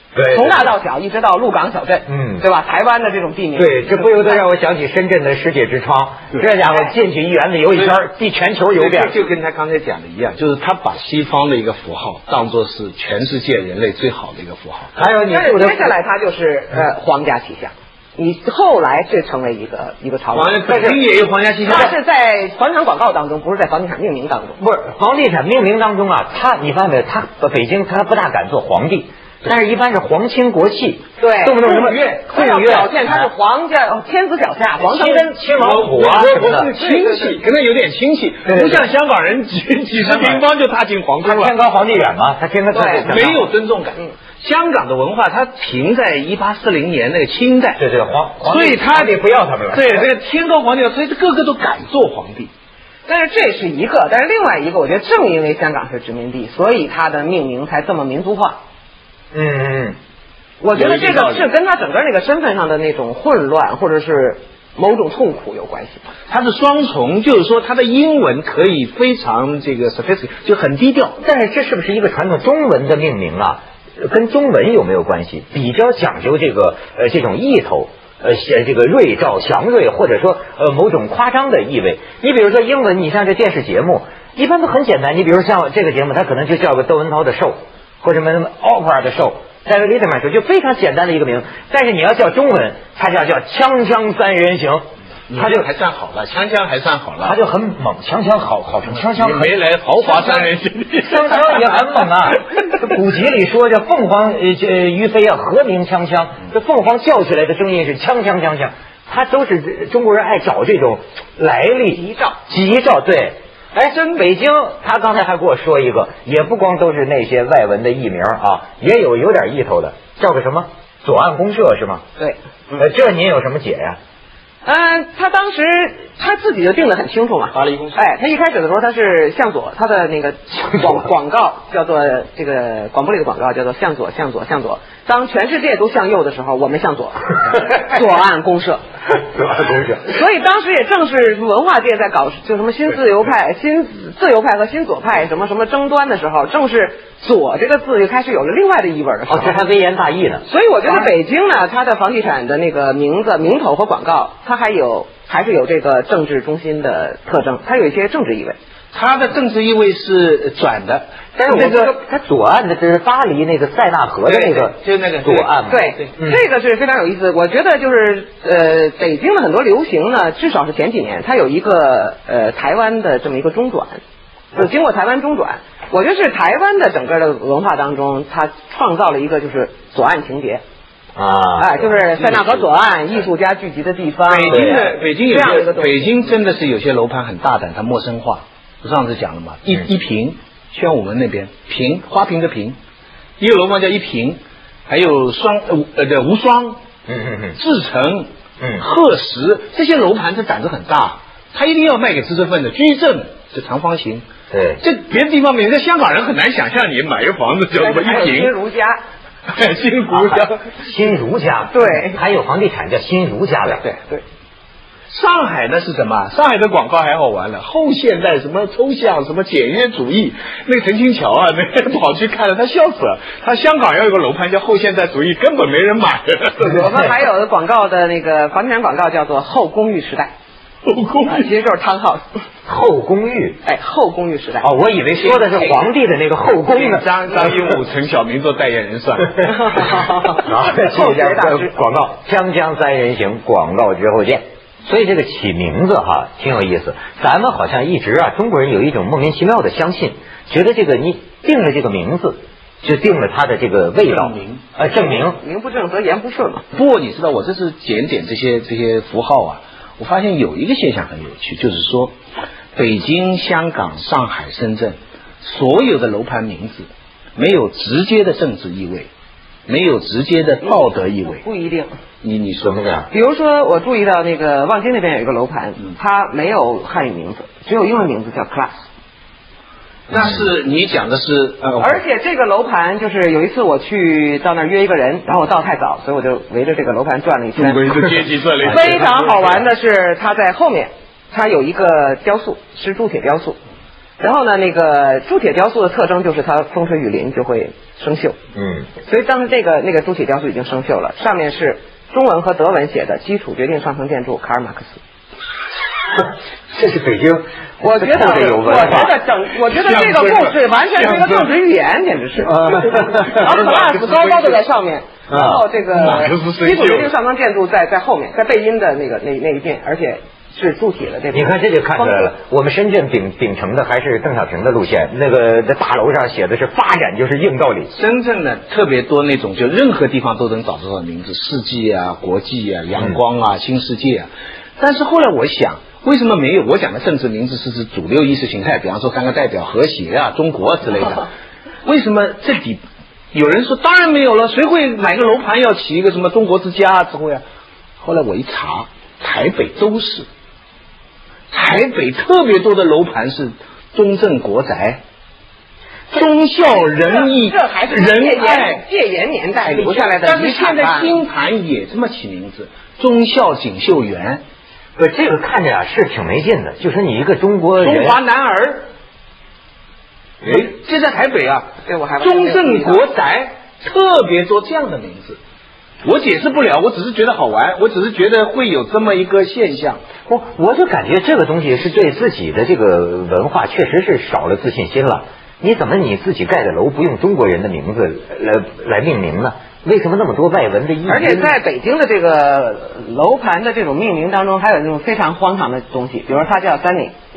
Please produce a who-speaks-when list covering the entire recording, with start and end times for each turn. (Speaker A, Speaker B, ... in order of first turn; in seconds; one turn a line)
Speaker A: 0.1-0.6
Speaker B: 0.3-4.4
Speaker A: 2.1-2.4
Speaker A: 3.5-9.1
Speaker C: 8.7-14.9
Speaker A: 14.9-15.9
Speaker B: 15.2-20.9
Speaker C: 20.3-21.9
Speaker A: 20.7-20.9
Speaker B: 21.6-24.6
Speaker A: 24.6-33.3
Speaker B: 31.2-35.3
Speaker A: 34.8-36.7
Speaker C: 35.5-41.5
Speaker B: 36.8-37.4
Speaker A: 38.5-38.9
Speaker A: 40.0-40.4
Speaker A: 41.2-43.5
Speaker B: 42.7-43.1
Speaker C: 43.0-47.8
Speaker A: 47.8-50.1
Speaker C: 48.4-52.5
Speaker B: 53.1-58.6
Speaker A: 59.3-60.0
Speaker B: 60.6-66.0
Speaker C: 60.7-61.4
Speaker C: 66.3-71.2
Speaker A: 71.2-95.7
Speaker C: 95.3-97.3
Speaker A: 97.2-99.5
Speaker C: 98.9-101.6
Speaker A: 100.0-100.4
Speaker A: 101.0-122.0
Speaker B: 111.9-112.4
Speaker B: 122.2-122.9
Speaker A: 122.8-124.0
Speaker B: 124.6-138.8
Speaker C: 127.5-128.0
Speaker A: 139.3-140.0
Speaker B: 140.0-149.6
Speaker A: 149.3-151.1
Speaker B: 150.4-158.6
Speaker C: 158.9-161.9
Speaker A: 161.4-166.4
Speaker C: 164.2-165.5
Speaker B: 165.7-174.0
Speaker B: 174.5-180.6
Speaker A: 181.2-181.9
Speaker B: 181.6-186.1
Speaker C: 182.2-182.5
Speaker C: 184.3-192.8
Speaker A: 184.5-184.8
Speaker C: 193.4-196.8
Speaker A: 197.1-197.6
Speaker C: 197.6-204.2
Speaker A: 204.5-204.8
Speaker C: 204.8-208.5
Speaker B: 207.8-209.0
Speaker C: 209.5-210.6
Speaker A: 210.1-213.8
Speaker B: 211.7-212.2
Speaker B: 213.9-214.2
Speaker C: 215.1-226.8
Speaker B: 226.6-230.3
Speaker C: 230.8-231.5
Speaker B: 231.2-232.2
Speaker A: 232.7-233.6
Speaker B: 233.6-234.7
Speaker A: 234.6-237.0
Speaker B: 235.2-235.8
Speaker C: 236.7-239.9
Speaker B: 239.4-241.7
Speaker A: 240.2-255.4
Speaker C: 254.1-254.6
Speaker B: 254.8-256.7
Speaker C: 256.7-262.1
Speaker C: 262.7-269.1
Speaker C: 269.7-271.4
Speaker B: 271.4-271.9
Speaker C: 272.2-273.1
Speaker A: 272.6-273.1
Speaker B: 273.1-278.7
Speaker C: 280.1-282.0
Speaker B: 281.8-287.8
Speaker C: 287.6-289.6
Speaker B: 288.6-293.6
Speaker B: 294.2-298.4
Speaker A: 298.5-298.9
Speaker B: 299.0-305.0
Speaker A: 306.2-309.2
Speaker B: 307.8-322.3
Speaker C: 309.7-311.5
Speaker A: 312.4-313.5
Speaker C: 313.0-314.6
Speaker A: 315.3-315.6
Speaker C: 315.9-317.1
Speaker A: 321.3-327.9
Speaker C: 327.9-341.3
Speaker C: 341.8-342.8
Speaker C: 343.3-347.4
Speaker C: 348.0-350.3
Speaker C: 351.5-355.0
Speaker C: 356.1-358.8
Speaker B: 356.8-361.1
Speaker C: 359.6-364.4
Speaker A: 365.0-368.2
Speaker C: 367.8-368.9
Speaker C: 370.4-375.4
Speaker B: 371.9-373.1
Speaker C: 376.0-380.0
Speaker A: 380.3-391.5
Speaker B: 391.1-397.1